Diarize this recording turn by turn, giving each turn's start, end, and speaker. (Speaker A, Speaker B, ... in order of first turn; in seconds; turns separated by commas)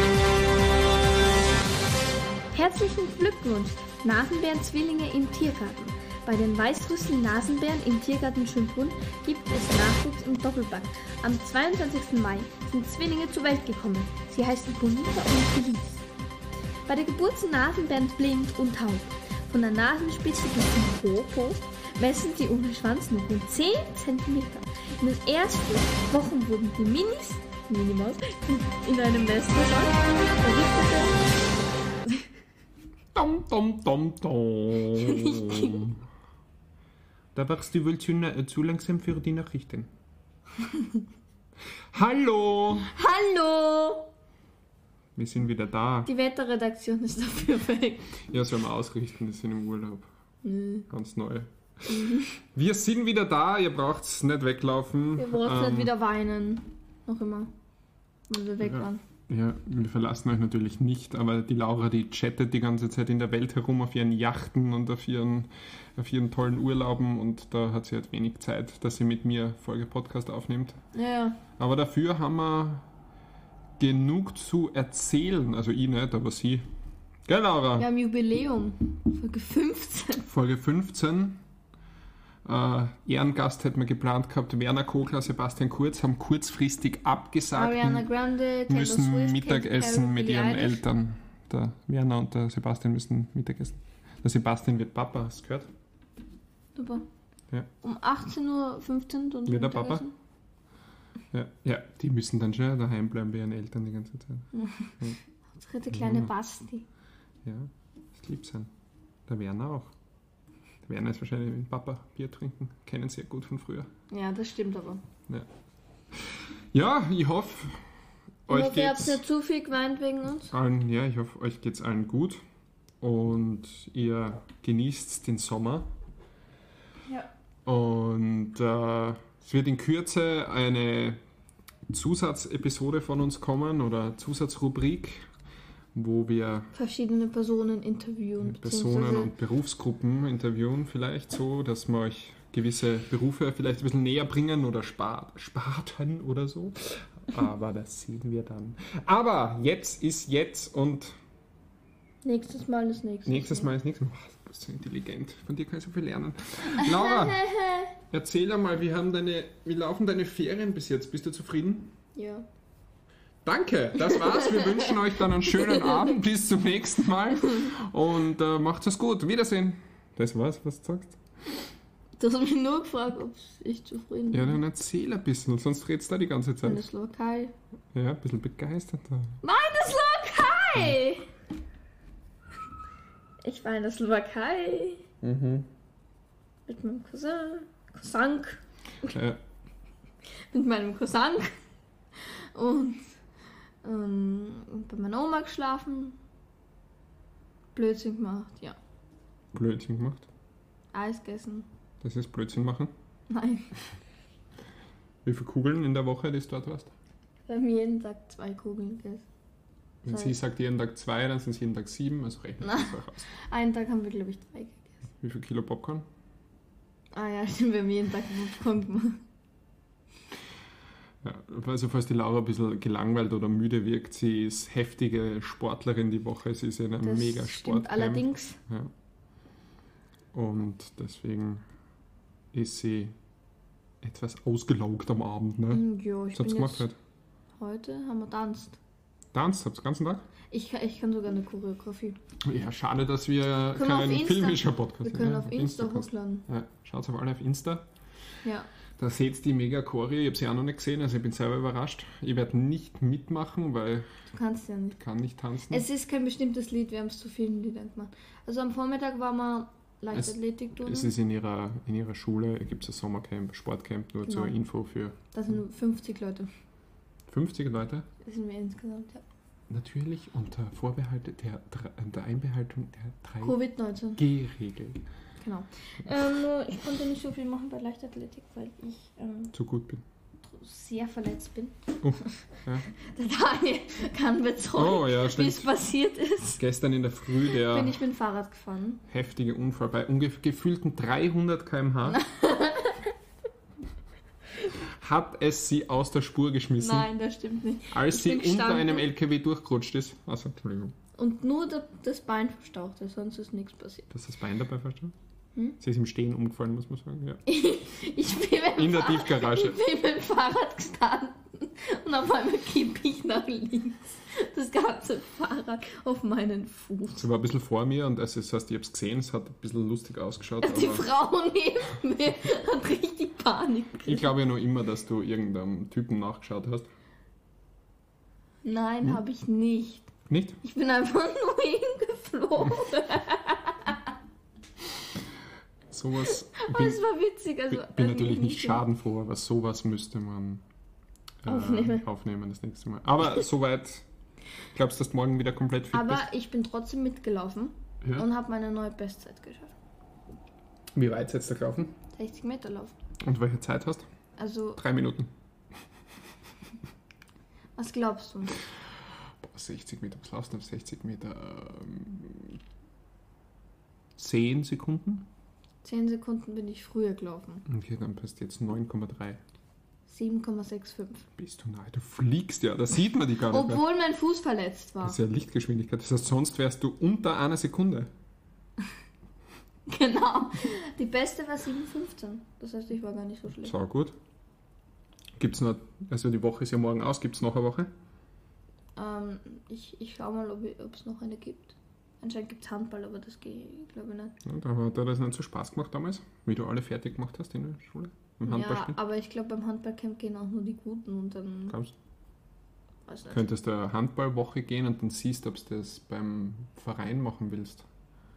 Speaker A: 2.5-16.0, Speaker A: 16.9-31.2, Speaker B: 33.1-36.0, Speaker A: 35.0-35.8, Speaker B: 37.3-39.9, Speaker B: 41.9-42.9, Speaker A: 42.9-44.1, Speaker B: 45.1-46.1, Speaker A: 46.0-48.2, Speaker B: 48.3-50.1, Speaker A: 50.4-50.9, Speaker B: 50.9-55.9, Speaker A: 51.9-52.3, Speaker A: 55.1-57.5, Speaker A: 58.3-59.0, Speaker B: 58.6-70.8, Speaker A: 70.9-71.4, Speaker B: 71.6-72.8, Speaker B: 73.8-76.7, Speaker B: 77.2-77.9, Speaker A: 77.8-80.3, Speaker B: 80.3-81.4, Speaker B: 82.4-88.1, Speaker A: 87.5-90.8, Speaker B: 88.7-95.7, Speaker A: 96.7-97.0, Speaker A: 97.8-100.1, Speaker B: 99.5-100.0, Speaker B: 101.3-104.5, Speaker A: 104.5-106.8, Speaker B: 105.9-106.3, Speaker B: 107.4-108.7, Speaker B: 109.3-109.9, Speaker B: 110.8-113.9, Speaker A: 114.1-115.0, Speaker B: 116.1-117.8, Speaker B: 118.5-119.2, Speaker A: 118.5-120.5, Speaker B: 120.5-122.4, Speaker B: 123.0-125.9, Speaker B: 127.6-131.2, Speaker B: 131.9-135.2, Speaker B: 135.9-136.7, Speaker A: 136.7-139.3, Speaker B: 138.4-151.2, Speaker A: 152.2-153.7, Speaker B: 153.2-157.4, Speaker A: 156.8-157.9, Speaker B: 158.0-161.9, Speaker A: 162.1-162.4, Speaker B: 163.4-171.2, Speaker A: 164.1-164.9, Speaker A: 165.5-166.2, Speaker A: 172.2-174.6, Speaker B: 174.3-176.8, Speaker A: 176.6-177.5, Speaker B: 177.9-179.3, Speaker A: 179.4-181.3, Speaker A: 183.4-185.0, Speaker B: 185.2-185.7, Speaker A: 186.7-189.1, Speaker B: 189.0-189.4, Speaker A: 190.5-191.6, Speaker A: 192.2-193.1, Speaker A: 193.8-196.2, Speaker A: 197.7-198.8, Speaker B: 199.5-200.3, Speaker A: 200.9-201.7, Speaker B: 202.0-202.9, Speaker A: 203.3-203.7, Speaker B: 205.2-206.9, Speaker A: 207.5-209.2, Speaker B: 210.0-213.3, Speaker A: 210.1-210.3, Speaker A: 212.6-215.0, Speaker B: 215.2-216.1, Speaker A: 217.1-219.2, Speaker B: 221.2-228.9, Speaker A: 227.0-228.6, Speaker B: 230.3-231.6, Speaker B: 232.5-233.1, Speaker B: 234.0-236.9, Speaker A: 235.7-236.9, Speaker A: 237.6-238.8, Speaker B: 239.3-240.3, Speaker A: 240.5-242.2, Speaker B: 242.4-247.8, Speaker A: 243.7-246.4, Speaker A: 248.4-248.7, Speaker B: 249.0-254.1, Speaker A: 254.3-255.0, Speaker B: 255.0-255.9, Speaker A: 255.7-261.1, Speaker B: 260.1-265.2, Speaker A: 264.2-264.6, Speaker A: 265.3-266.5, Speaker B: 267.3-268.1, Speaker A: 268.2-269.2, Speaker B: 269.7-273.5, Speaker A: 273.4-274.2, Speaker B: 274.2-275.0, Speaker A: 275.4-279.5, Speaker B: 279.5-280.0, Speaker A: 280.5-286.6, Speaker B: 282.0-282.9, Speaker B: 284.7-285.7, Speaker B: 286.5-288.0, Speaker A: 287.4-289.0, Speaker B: 289.1-292.2, Speaker A: 292.1-293.1, Speaker B: 294.8-297.1, Speaker A: 296.8-299.1, Speaker B: 297.9-300.9, Speaker A: 301.2-304.1, Speaker B: 304.1-305.1, Speaker B: 305.8-307.4, Speaker A: 307.4-317.3, Speaker B: 308.8-309.8, Speaker B: 317.1-321.1, Speaker A: 320.6-324.3, Speaker B: 324.1-326.9, Speaker A: 328.6-330.1, Speaker B: 330.3-330.6, Speaker A: 330.6-334.1, Speaker B: 335.9-337.0, Speaker A: 336.3-338.8, Speaker B: 337.7-340.6, Speaker B: 341.4-344.0, Speaker A: 341.4-342.0, Speaker B: 344.7-346.2, Speaker A: 345.9-349.7, Speaker B: 350.9-351.9, Speaker A: 352.1-352.9, Speaker B: 353.2-354.1, Speaker A: 354.4-354.8, Speaker B: 354.8-355.3, Speaker A: 357.8-358.6, Speaker B: 359.4-362.6, Speaker B: 364.2-365.2, Speaker A: 365.8-367.6, Speaker B: 367.6-369.4, Speaker A: 370.1-371.2, Speaker B: 371.4-373.8, Speaker A: 373.5-375.2, Speaker B: 375.0-378.1, Speaker A: 379.9-383.7, Speaker B: 383.6-384.1, Speaker B: 385.4-387.9, Speaker A: 388.9-394.4, Speaker B: 394.4-399.0, Speaker A: 398.5-401.8, Speaker A: 403.1-403.5, Speaker B: 403.3-407.9